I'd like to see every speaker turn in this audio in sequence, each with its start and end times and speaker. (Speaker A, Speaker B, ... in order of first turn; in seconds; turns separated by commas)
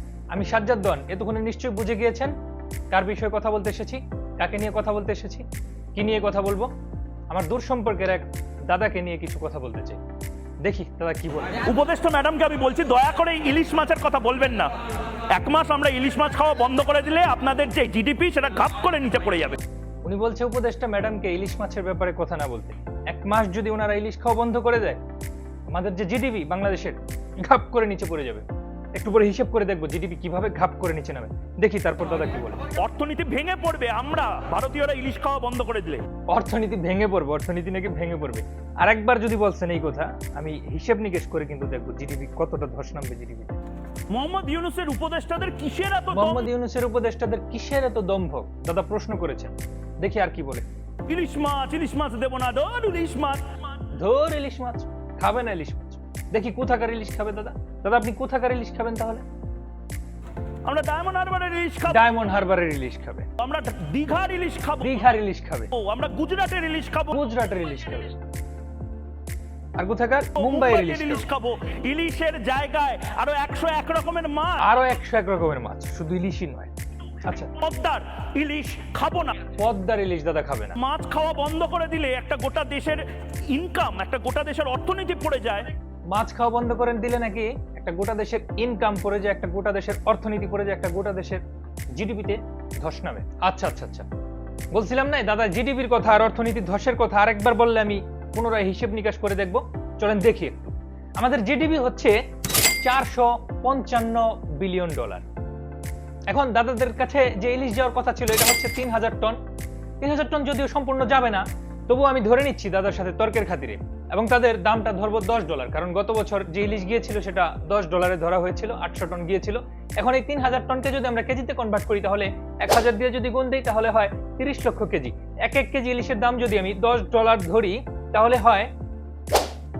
Speaker A: 0.3-2.3, Speaker A: 2.9-5.4, Speaker A: 5.9-6.7, Speaker A: 7.3-10.0, Speaker A: 10.6-11.6, Speaker B: 11.6-14.7, Speaker B: 15.3-19.6, Speaker A: 20.0-25.0, Speaker A: 25.7-28.4, Speaker A: 28.9-32.6, Speaker B: 32.8-36.0, Speaker A: 36.3-43.5, Speaker B: 44.1-46.5, Speaker A: 46.1-50.7, Speaker B: 51.1-53.4, Speaker A: 54.0-59.2, Speaker B: 60.6-62.0, Speaker A: 61.9-63.3, Speaker B: 63.4-65.1, Speaker A: 64.8-65.7, Speaker B: 65.7-67.2, Speaker A: 67.1-68.1, Speaker A: 69.8-71.2, Speaker B: 70.4-74.6, Speaker A: 74.6-76.7, Speaker A: 77.2-77.5, Speaker B: 77.6-79.4, Speaker A: 79.5-80.8, Speaker B: 80.8-85.7, Speaker A: 86.1-91.4, Speaker A: 92.0-94.0, Speaker A: 94.7-102.1, Speaker A: 102.8-105.2, Speaker A: 106.3-109.4, Speaker A: 110.0-128.7